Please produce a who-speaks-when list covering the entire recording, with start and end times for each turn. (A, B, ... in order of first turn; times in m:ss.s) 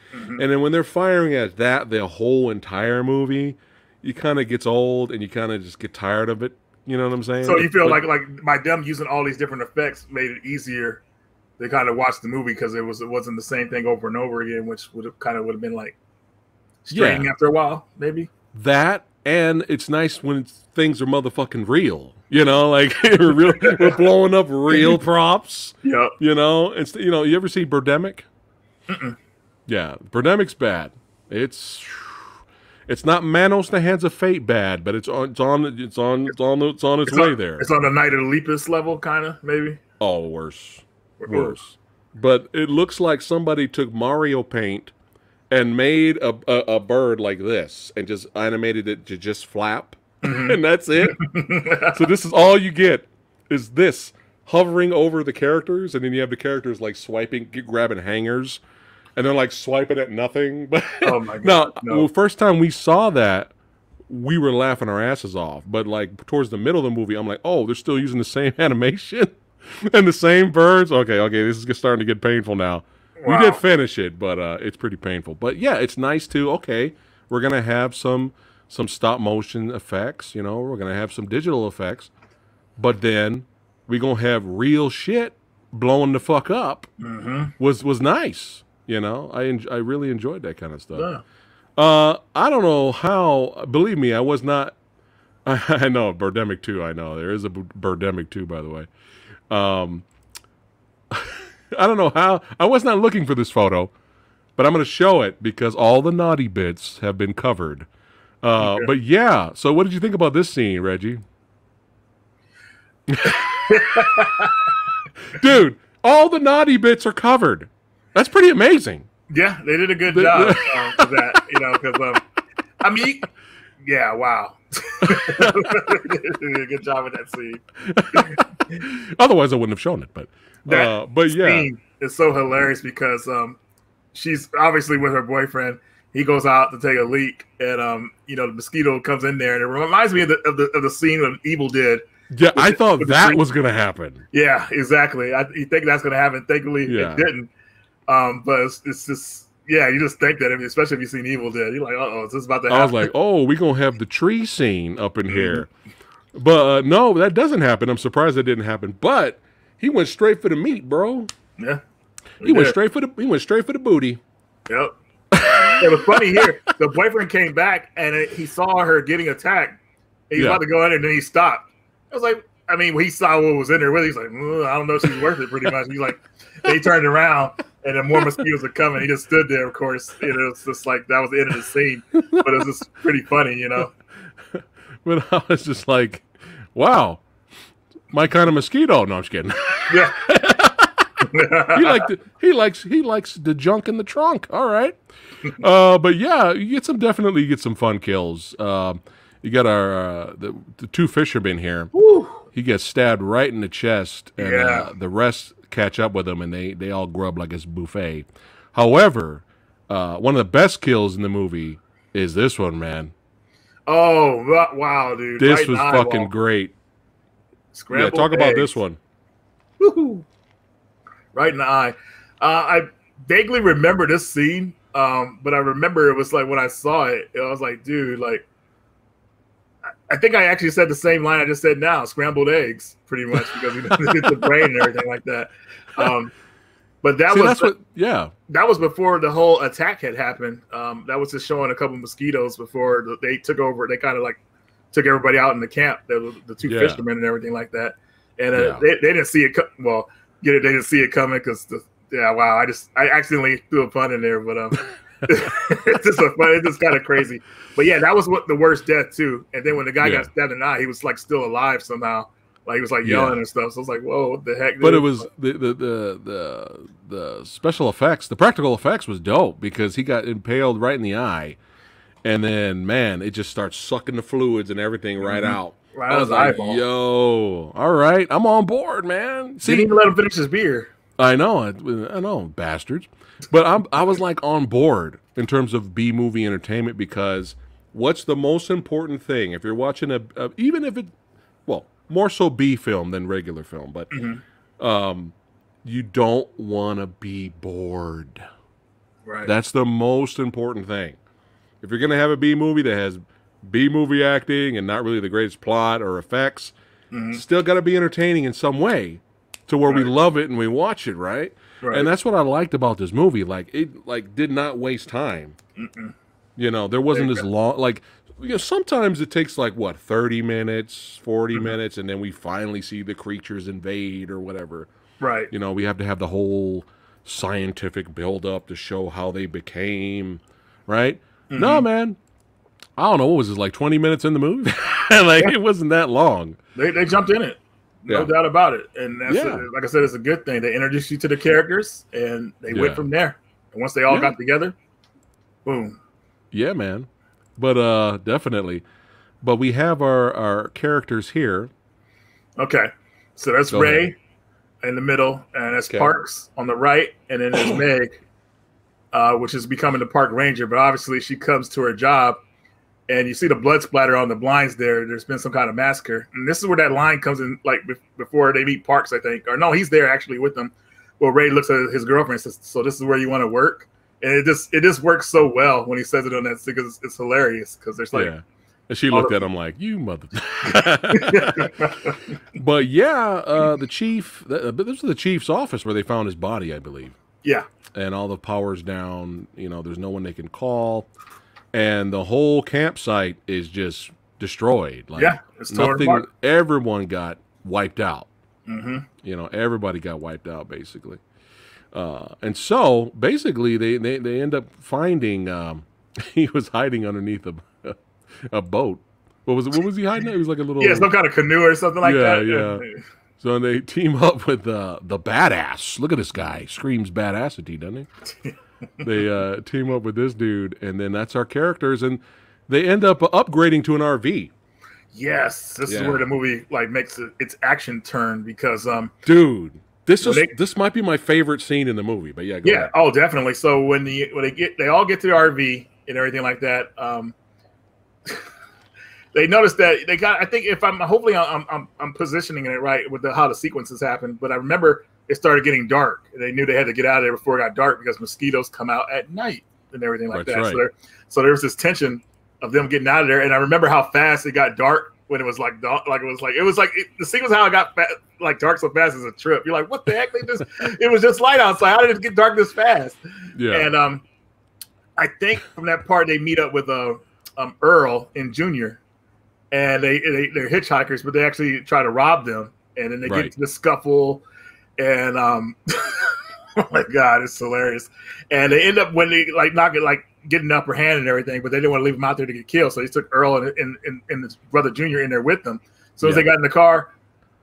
0:00.1-0:00.4 A
0:00.4-0:08.0 B
0:07.4-0:11.0 A
0:11.6-0:16.0 A
0:16.8-0:18.3 A
0:16.9-0:17.3 B
0:18.5-0:28.3 B
0:23.6-0:24.0 A
0:25.8-0:26.1 A
0:28.9-0:29.2 A
0:29.7-0:37.6 B
0:37.0-0:39.8 A
0:40.0-0:44.9 B
0:41.2-0:41.5 A
0:45.5-0:58.6 B
0:50.2-0:52.0 A
0:59.2-1:03.5 B
1:01.0-1:02.1 A
1:04.1-1:22.1 B
1:13.2-1:13.6 A
1:22.8-1:26.9 B
1:27.0-1:27.5 A
1:27.6-1:31.1 B
1:31.0-1:31.2 A
1:31.8-1:34.7 B
1:35.4-1:38.9 B
1:39.5-1:40.0 B
1:41.1-1:43.9 B
1:44.6-1:47.9 B
1:48.4-1:51.2 B
1:48.6-1:48.9 A
1:53.1-1:53.7 B
1:53.3-1:54.7 A
1:55.3-1:59.1 B
1:59.3-2:02.2 A
2:00.1-2:01.4 B
2:02.8-2:03.3 A
2:03.8-2:08.4 A
2:05.0-2:05.8 B
2:07.8-2:11.7 B
2:10.7-2:13.6 A
2:14.1-2:23.4 A
2:22.3-2:24.2 B
2:24.3-2:27.5 A
2:26.8-2:27.3 B
2:28.1-2:33.1 A
2:32.7-2:35.7 B
2:35.3-2:35.6 A
2:36.3-2:41.3 B
2:42.4-2:42.8 A
2:42.4-2:44.2 B
2:45.3-2:46.5 B
2:45.6-2:49.8 A
2:50.3-3:03.9 A
2:50.3-2:50.6 B
3:02.3-3:02.6 B
3:04.5-3:07.2 B
3:08.1-3:15.0 B
3:09.9-3:10.2 A
3:11.2-3:12.1 A
3:15.5-3:21.9 B
3:21.9-3:22.4 A
3:22.5-3:33.1 B
3:24.4-3:24.9 A
3:33.9-3:36.3 A
3:35.4-3:36.7 B
3:37.7-3:38.8 A
3:37.9-3:39.0 B
3:39.8-3:40.2 A
3:41.3-3:48.4 A
3:50.1-3:56.3 A
3:53.9-3:54.4 B
3:57.0-3:57.7 A
3:57.3-3:58.3 B
3:58.5-4:04.4 A
4:04.9-4:25.2 A
4:06.6-4:07.0 B
4:08.5-4:08.8 B
4:20.0-4:20.3 B
4:23.0-4:23.4 B
4:24.8-4:31.6 B
4:32.2-4:39.9 B
4:35.2-4:36.8 A
4:39.6-4:40.9 A
4:41.2-4:51.1 B
4:51.6-4:54.1 B
4:54.1-4:54.4 A
4:54.8-4:58.4 B
4:59.2-4:59.5 A
4:59.4-5:01.2 B
5:01.8-5:06.7 B
5:07.1-5:07.4 A
5:07.3-5:15.6 B
5:11.8-5:12.1 A
5:15.8-5:16.1 A
5:16.6-5:24.9 B
5:17.1-5:17.4 A
5:25.2-5:25.5 A
5:25.5-5:32.2 B
5:31.5-5:31.8 A
5:33.0-5:36.6 B
5:36.8-5:44.7 A
5:38.1-5:38.3 B
5:39.3-5:39.6 B
5:42.7-5:43.0 B
5:45.6-5:46.0 A
5:46.5-5:48.8 B
5:49.4-5:51.7 B
5:52.6-5:54.2 A
5:53.7-5:54.1 B
5:54.8-5:58.2 A
5:59.1-6:02.4 A
6:03.1-6:18.3 A
6:18.1-6:21.9 B
6:19.1-6:19.4 A
6:20.7-6:22.3 A
6:22.5-6:27.2 B
6:27.9-6:31.1 B
6:31.7-6:38.3 B
6:35.2-6:36.2 A
6:38.7-6:39.1 A
6:39.2-6:41.2 B
6:41.9-6:51.1 B
6:50.8-6:53.0 A
6:52.0-6:52.8 B
6:53.4-6:58.1 B
6:58.5-6:59.1 A
6:59.0-7:04.5 B
7:05.1-7:09.1 A
7:05.9-7:06.3 B
7:09.2-7:12.9 B
7:10.2-7:10.5 A
7:12.6-7:17.3 A
7:19.3-7:44.2 A
7:30.3-7:30.8 B
7:43.6-7:43.9 B
7:45.2-7:49.0 A
7:49.7-7:54.4 A
7:53.2-7:53.5 B
7:55.0-8:07.1 A
8:06.2-8:06.5 B